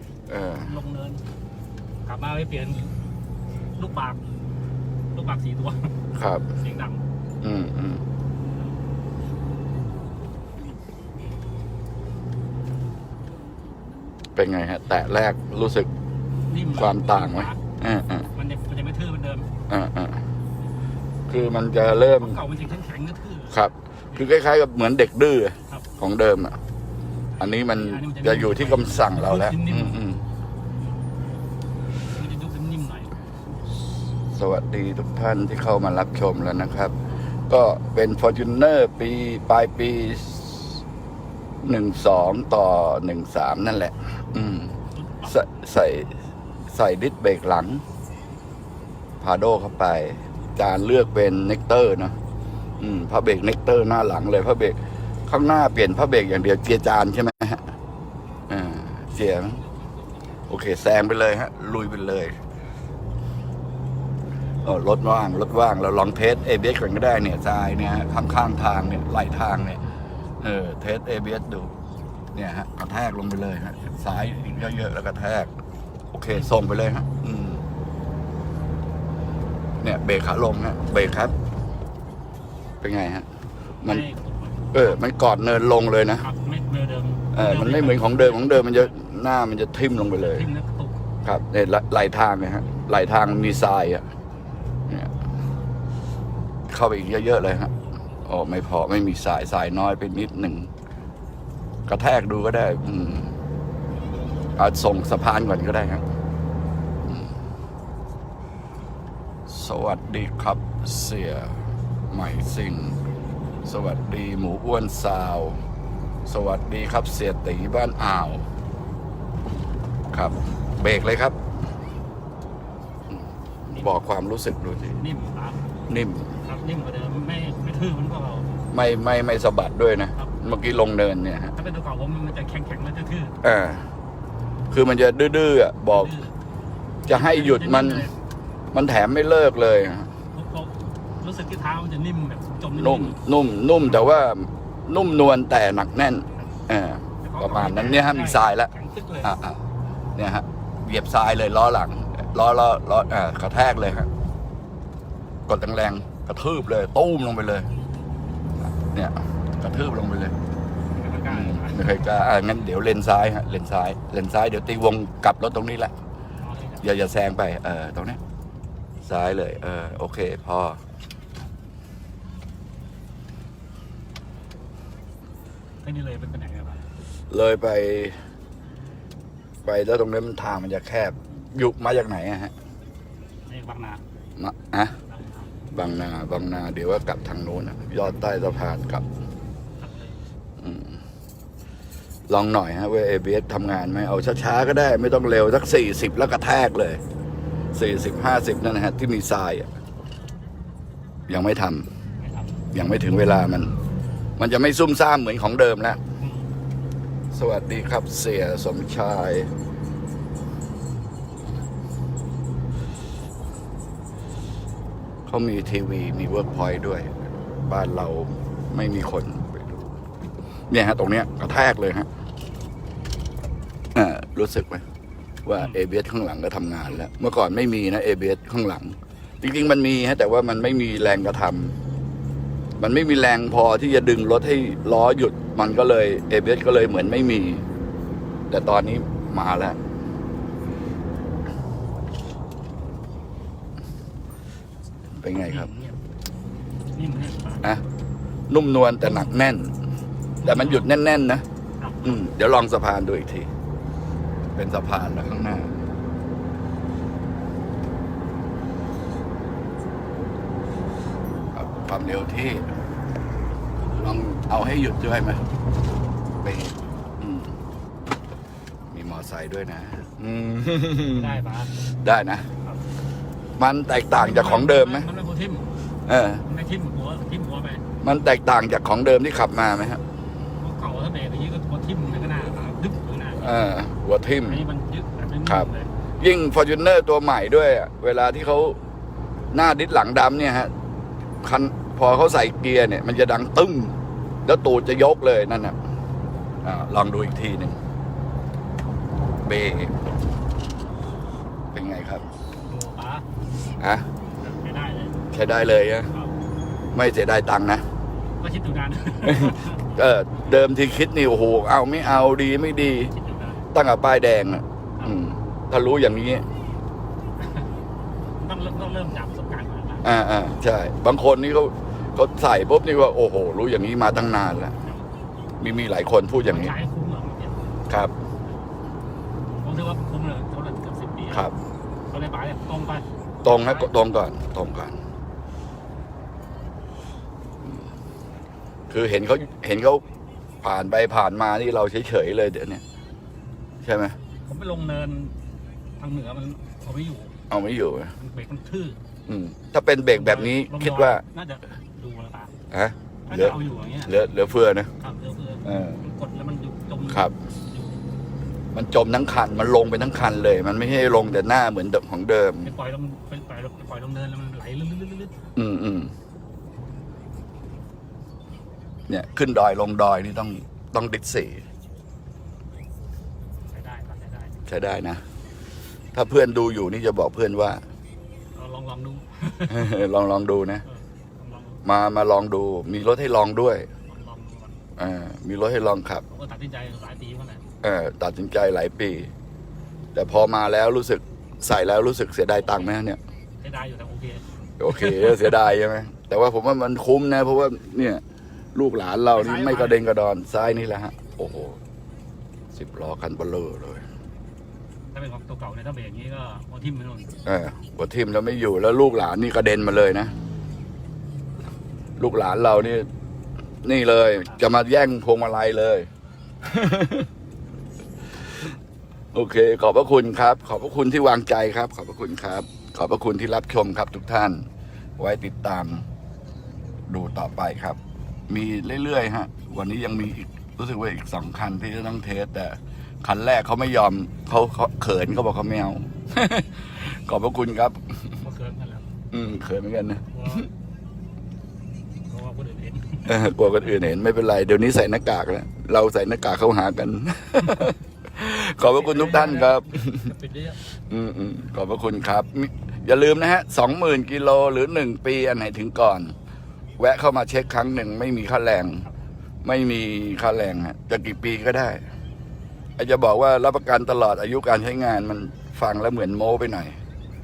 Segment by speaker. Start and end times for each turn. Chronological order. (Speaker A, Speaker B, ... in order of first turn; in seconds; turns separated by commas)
Speaker A: 0.3-0.7, Speaker B: 0.6-1.2, Speaker B: 2.0-2.9, Speaker B: 3.8-4.2, Speaker B: 5.1-6.0, Speaker A: 6.1-6.4, Speaker B: 6.5-7.0, Speaker A: 7.4-8.0, Speaker A: 14.3-15.9, Speaker B: 16.5-17.6, Speaker A: 16.7-18.3, Speaker B: 18.3-19.5, Speaker A: 19.7-20.2, Speaker A: 21.3-22.4, Speaker B: 22.2-24.3, Speaker A: 23.5-26.6, Speaker B: 27.4-30.0, Speaker A: 27.4-30.2, Speaker B: 32.0-33.1, Speaker A: 34.3-36.9, Speaker A: 37.5-40.8, Speaker A: 41.6-44.7, Speaker B: 44.9-45.3, Speaker A: 45.2-46.1, Speaker A: 46.7-47.8, Speaker A: 49.2-52.1, Speaker A: 52.8-57.7, Speaker A: 58.5-59.6, Speaker A: 60.5-62.4, Speaker A: 64.6-69.8, Speaker A: 70.4-71.7, Speaker A: 72.3-75.5, Speaker A: 76.1-77.6, Speaker B: 76.3-76.6, Speaker A: 79.8-81.3, Speaker A: 82.8-83.3, Speaker B: 83.8-85.0, Speaker A: 84.7-86.2, Speaker B: 86.2-88.9, Speaker A: 87.3-90.5, Speaker B: 90.2-91.0, Speaker A: 91.2-94.0, Speaker A: 96.7-97.7, Speaker A: 98.2-100.7, Speaker A: 101.9-103.3, Speaker A: 104.5-106.0, Speaker A: 107.1-107.3, Speaker A: 109.5-113.0, Speaker A: 113.6-115.6, Speaker A: 116.2-118.4, Speaker A: 120.1-121.4, Speaker A: 123.8-125.0, Speaker B: 125.0-125.7, Speaker A: 125.9-126.3, Speaker B: 126.4-128.5, Speaker A: 128.7-131.5, Speaker B: 131.5-133.4, Speaker A: 133.4-133.8, Speaker A: 134.7-136.1, Speaker B: 135.9-136.3, Speaker A: 137.1-138.1, Speaker B: 137.1-138.1, Speaker A: 138.7-140.1, Speaker B: 140.3-143.2, Speaker A: 142.7-148.7, Speaker B: 143.8-144.2, Speaker B: 147.2-149.3, Speaker A: 149.2-149.6, Speaker A: 150.2-154.1, Speaker A: 155.5-157.7, Speaker A: 158.6-160.3, Speaker B: 160.9-161.9, Speaker A: 161.3-165.9, Speaker B: 166.4-166.9, Speaker A: 166.8-168.2, Speaker A: 169.0-170.8, Speaker B: 175.8-176.8, Speaker A: 177.3-178.2, Speaker A: 179.6-182.5, Speaker B: 183.4-184.0, Speaker A: 184.4-184.9, Speaker B: 185.1-185.5, Speaker A: 185.7-189.0, Speaker B: 189.8-190.2, Speaker A: 190.6-191.0, Speaker A: 192.3-197.0, Speaker A: 197.7-199.7, Speaker A: 201.3-201.8, Speaker B: 202.2-202.6, Speaker A: 202.7-203.7, Speaker A: 204.4-206.0, Speaker B: 206.2-206.5, Speaker A: 207.3-209.5, Speaker A: 215.3-217.1, Speaker A: 217.7-219.8, Speaker A: 220.7-222.1, Speaker A: 223.9-224.8, Speaker A: 225.4-231.8, Speaker A: 232.8-237.6, Speaker A: 238.5-239.8, Speaker A: 245.2-245.7, Speaker B: 245.4-246.0, Speaker B: 246.9-247.7, Speaker A: 248.5-249.7, Speaker B: 250.4-250.9, Speaker A: 250.4-251.4, Speaker B: 251.8-252.3, Speaker A: 252.0-253.5, Speaker A: 254.5-255.7, Speaker A: 261.5-262.7, Speaker A: 263.9-265.4, Speaker A: 266.4-267.5, Speaker A: 268.9-271.4, Speaker B: 271.1-271.7, Speaker A: 272.0-272.5, Speaker A: 273.6-275.1, Speaker B: 274.1-275.7, Speaker A: 276.1-276.4, Speaker B: 276.4-277.8, Speaker A: 278.0-280.0, Speaker B: 280.6-283.6, Speaker A: 283.4-284.6, Speaker B: 284.5-285.9, Speaker A: 286.2-288.8, Speaker A: 289.5-290.7, Speaker A: 291.4-295.8, Speaker A: 296.6-297.8, Speaker A: 299.4-299.9, Speaker A: 301.7-302.2, Speaker B: 302.6-303.2, Speaker A: 303.8-304.1, Speaker B: 304.4-305.3, Speaker A: 305.3-306.1, Speaker B: 306.1-306.3, Speaker A: 306.9-307.8, Speaker B: 308.4-309.9, Speaker A: 309.2-313.1, Speaker B: 313.1-313.7, Speaker A: 313.7-316.5, Speaker B: 317.4-317.7, Speaker B: 318.4-320.1, Speaker A: 320.0-324.7, Speaker B: 324.8-325.1, Speaker A: 325.6-326.7, Speaker B: 326.4-327.7, Speaker B: 329.6-331.5, Speaker B: 332.1-333.9, Speaker A: 333.4-335.0, Speaker A: 338.9-340.0, Speaker A: 340.6-342.8, Speaker A: 343.8-344.2, Speaker B: 344.4-345.3, Speaker B: 346.0-347.3, Speaker A: 347.5-348.1, Speaker B: 348.2-349.0, Speaker A: 349.3-351.2, Speaker B: 350.1-352.5, Speaker A: 352.7-354.9, Speaker B: 353.3-354.1, Speaker B: 355.0-358.0, Speaker A: 355.6-356.0, Speaker A: 357.1-357.3, Speaker A: 358.7-362.7, Speaker B: 362.6-365.4, Speaker A: 365.6-366.1, Speaker A: 369.1-371.6, Speaker B: 373.7-374.6, Speaker A: 374.7-375.2, Speaker A: 376.1-377.8, Speaker B: 378.5-379.9, Speaker A: 379.7-380.8, Speaker B: 380.9-381.8, Speaker A: 381.8-383.9, Speaker B: 384.1-384.8, Speaker A: 385.0-386.2, Speaker B: 386.3-387.6, Speaker A: 387.8-389.3, Speaker A: 390.1-393.2, Speaker B: 393.6-395.5, Speaker A: 394.8-398.2, Speaker A: 398.7-401.8, Speaker B: 399.3-400.0, Speaker A: 402.7-404.0, Speaker B: 405.1-407.4, Speaker A: 407.4-410.3, Speaker A: 412.2-413.1, Speaker A: 413.8-416.1, Speaker A: 416.6-417.3, Speaker A: 419.3-424.6, Speaker A: 425.2-426.0, Speaker A: 427.1-428.0, Speaker A: 428.5-438.4, Speaker B: 438.4-439.1, Speaker A: 439.3-440.7, Speaker B: 440.3-440.7, Speaker B: 442.3-443.4, Speaker A: 443.2-450.3, Speaker B: 448.9-450.8, Speaker A: 450.9-456.3, Speaker A: 457.0-459.1, Speaker A: 459.6-462.0, Speaker A: 463.0-467.0